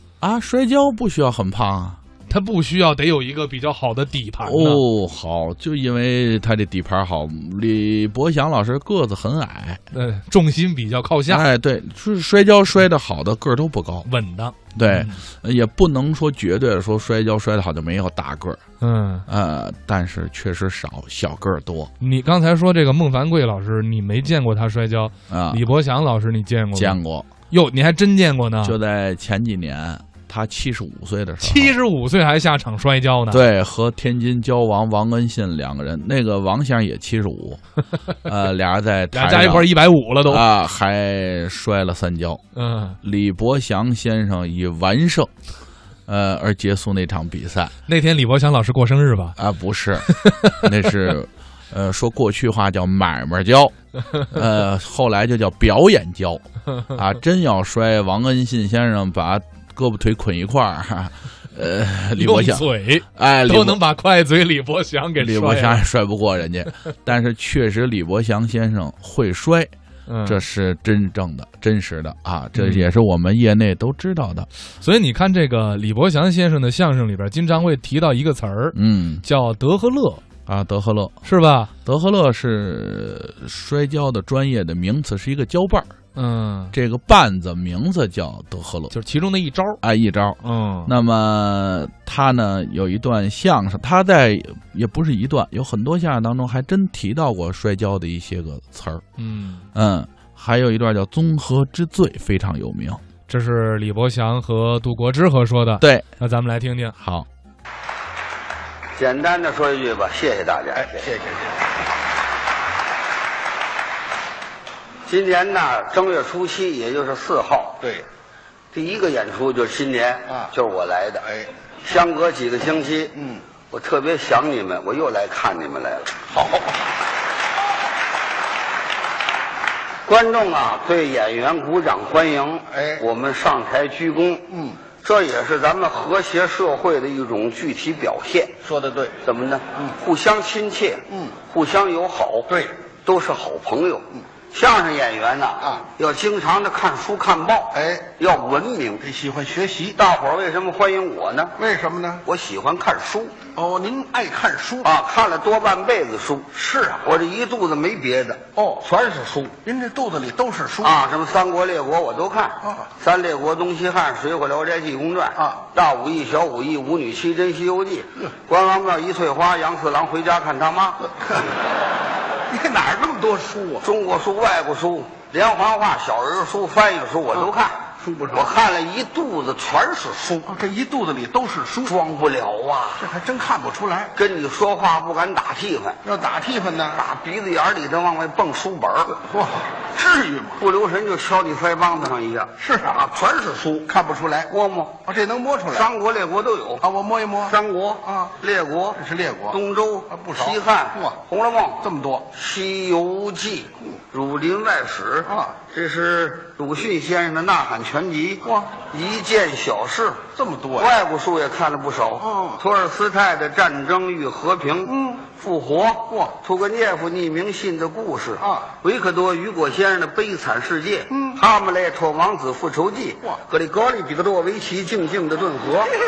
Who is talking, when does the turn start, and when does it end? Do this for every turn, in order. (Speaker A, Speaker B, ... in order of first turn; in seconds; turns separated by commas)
Speaker A: 0.2-2.0, Speaker B: 2.3-4.8, Speaker A: 4.4-9.8, Speaker B: 9.9-11.5, Speaker A: 11.3-14.1, Speaker B: 14.1-15.2, Speaker A: 14.7-18.6, Speaker B: 18.8-19.2, Speaker A: 19.2-21.9, Speaker B: 22.0-28.8, Speaker A: 25.3-25.6, Speaker A: 26.7-27.3, Speaker A: 28.6-31.7, Speaker B: 31.4-33.4, Speaker A: 33.3-37.6, Speaker A: 38.2-39.7, Speaker B: 39.1-40.4, Speaker A: 40.2-42.4, Speaker B: 42.5-43.0, Speaker A: 43.0-45.3, Speaker A: 46.1-47.7, Speaker B: 47.9-49.4, Speaker A: 49.4-63.8, Speaker B: 50.1-50.6, Speaker B: 62.2-65.8, Speaker A: 65.2-69.7, Speaker B: 70.1-70.4, Speaker A: 70.2-74.5, Speaker B: 72.6-72.8, Speaker B: 74.8-80.2, Speaker A: 78.7-79.2, Speaker A: 80.5-81.2, Speaker B: 81.2-81.7, Speaker A: 81.8-86.0, Speaker B: 86.1-86.7, Speaker A: 86.7-88.9, Speaker B: 88.9-89.8, Speaker A: 89.8-99.0, Speaker B: 90.4-90.9, Speaker B: 99.2-99.6, Speaker A: 99.7-103.0, Speaker B: 103.3-106.9, Speaker A: 105.8-106.0, Speaker A: 107.0-107.3, Speaker C: 109.0-111.1, Speaker D: 110.8-111.5, Speaker C: 115.1-117.8, Speaker C: 118.7-121.2, Speaker C: 121.8-126.1, Speaker D: 126.3-126.8, Speaker C: 130.1-138.6, Speaker D: 132.7-133.0, Speaker D: 134.5-134.8, Speaker D: 138.6-139.2, Speaker C: 139.2-142.5, Speaker C: 143.0-149.0, Speaker D: 147.7-148.1, Speaker D: 149.0-150.0, Speaker C: 149.9-151.6, Speaker D: 151.6-152.2, Speaker C: 152.2-153.3, Speaker D: 153.5-154.9, Speaker C: 154.8-156.5, Speaker D: 156.5-157.0, Speaker C: 157.0-159.6, Speaker D: 158.6-158.8, Speaker D: 159.6-161.0, Speaker C: 160.8-171.1, Speaker D: 172.5-173.8, Speaker C: 173.8-180.5, Speaker D: 177.4-178.5, Speaker D: 180.4-181.9, Speaker C: 181.8-183.1, Speaker D: 183.0-184.1, Speaker C: 184.1-186.0, Speaker D: 186.0-187.0, Speaker C: 186.9-189.2, Speaker D: 189.2-190.6, Speaker C: 190.6-193.9, Speaker D: 192.6-193.1, Speaker D: 193.9-194.5, Speaker C: 194.5-195.0, Speaker D: 195.0-195.9, Speaker C: 195.7-196.8, Speaker D: 196.8-197.6, Speaker C: 197.5-225.9, Speaker D: 198.9-201.2, Speaker D: 201.8-202.3, Speaker D: 205.3-205.5, Speaker D: 208.4-208.7, Speaker D: 210.3-210.9, Speaker D: 212.2-212.6, Speaker D: 214.8-215.2, Speaker D: 218.4-218.7, Speaker D: 221.1-221.4